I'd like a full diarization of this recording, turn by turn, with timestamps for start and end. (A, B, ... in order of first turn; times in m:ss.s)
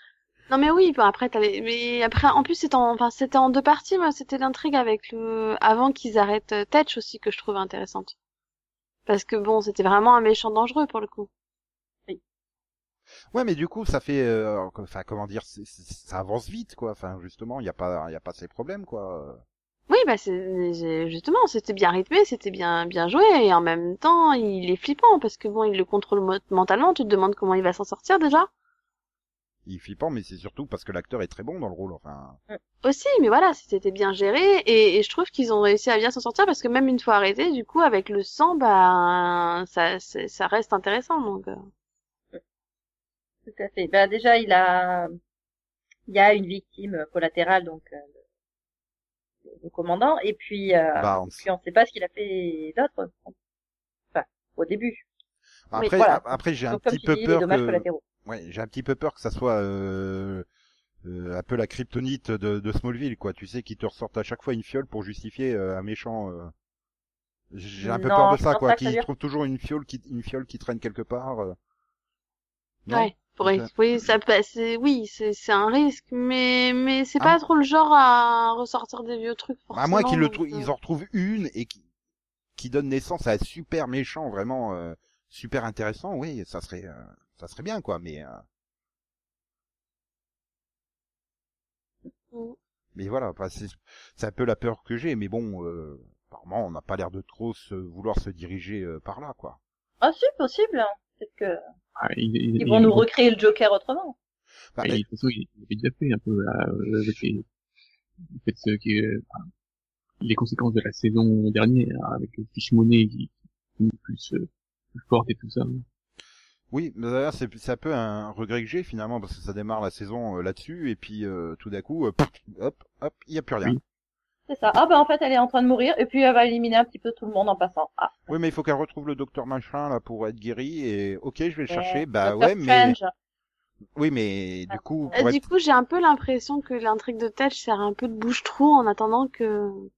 0:00.5-0:08.1 A
0:09.1-0:11.3 A
0:13.3-0:19.4 B
0:19.9-0:28.5 A
0:29.7-0:32.4 B
0:32.8-0:41.7 A
0:43.5-0:45.2 C
0:46.1-0:48.0 C
0:49.5-0:53.4 C
0:51.0-0:51.5 B
0:54.1-0:55.0 C
0:55.7-1:00.5 B
0:56.0-0:58.0 C
1:01.0-1:06.5 B
1:07.5-1:11.6 B
1:07.8-1:09.0 C
1:12.9-1:14.0 B
1:12.9-1:20.7 A
1:19.7-1:21.8 B
1:22.6-1:28.4 B
1:33.0-1:39.6 B
1:40.0-1:41.6 C
1:42.0-1:43.1 D
1:42.6-1:44.2 C
1:44.8-1:45.0 B
1:44.8-1:47.4 D
1:48.4-1:49.3 D
1:50.2-1:55.8 D
1:56.7-2:03.8 B
2:04.5-2:08.2 C
2:08.3-2:13.0 B
2:11.7-2:13.1 C
2:14.0-2:15.4 B
2:14.7-2:15.2 C
2:15.1-2:19.9 A